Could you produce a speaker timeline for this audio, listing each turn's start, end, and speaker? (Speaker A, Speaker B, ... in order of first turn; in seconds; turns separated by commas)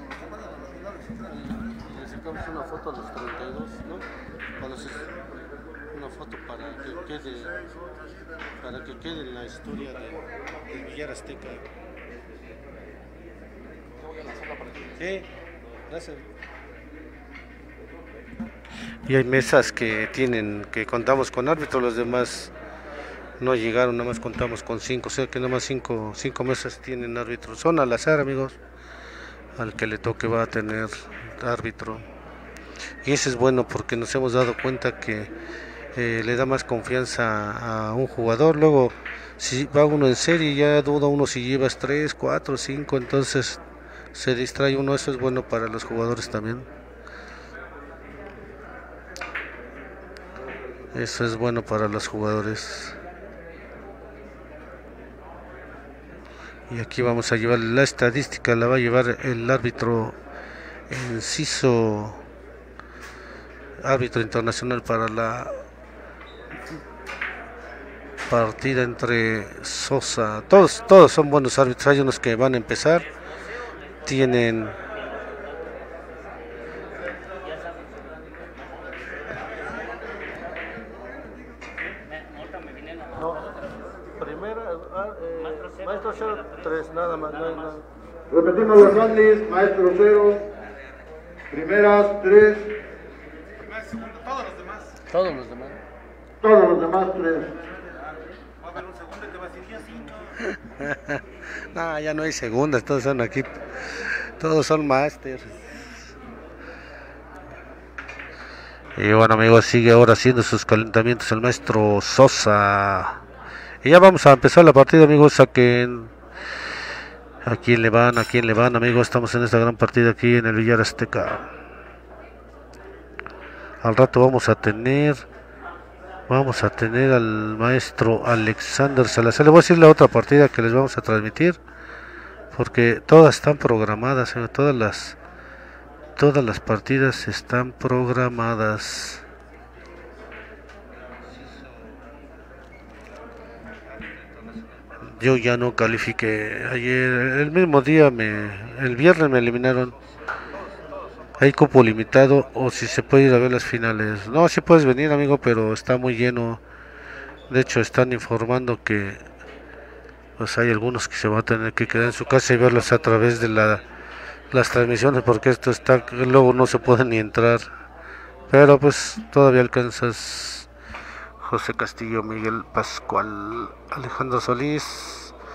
Speaker A: 1.3-4.0, Speaker A: 4.6-5.1, Speaker A: 5.9-7.5, Speaker A: 8.6-11.6, Speaker A: 14.9-15.3, Speaker A: 15.9-16.2, Speaker A: 19.1-22.5, Speaker A: 23.4-28.6, Speaker A: 29.6-32.0, Speaker A: 33.0-35.3, Speaker A: 35.9-43.6, Speaker A: 44.1-46.7, Speaker A: 50.9-53.0, Speaker A: 56.7-60.1, Speaker A: 60.9-62.2, Speaker A: 63.8-65.6, Speaker A: 68.3-73.1, Speaker A: 74.0-74.8, Speaker A: 83.1-83.5, Speaker A: 84.2-87.8, Speaker B: 88.3-90.5, Speaker B: 91.5-92.8, Speaker C: 93.6-95.0, Speaker A: 95.1-95.8, Speaker B: 96.4-97.6, Speaker C: 98.6-100.3, Speaker A: 100.4-105.8, Speaker A: 109.0-113.2, Speaker A: 113.8-116.1, Speaker A: 117.4-121.5, Speaker A: 123.8-125.2, Speaker A: 126.3-131.6, Speaker A: 132.5-135.2, Speaker A: 136.2-139.2, Speaker A: 145.1-150.0, Speaker A: 151.4-156.6, Speaker A: 157.5-159.3, Speaker A: 160.4-163.8, Speaker A: 164.5-167.7, Speaker A: 168.5-170.7, Speaker A: 171.4-175.3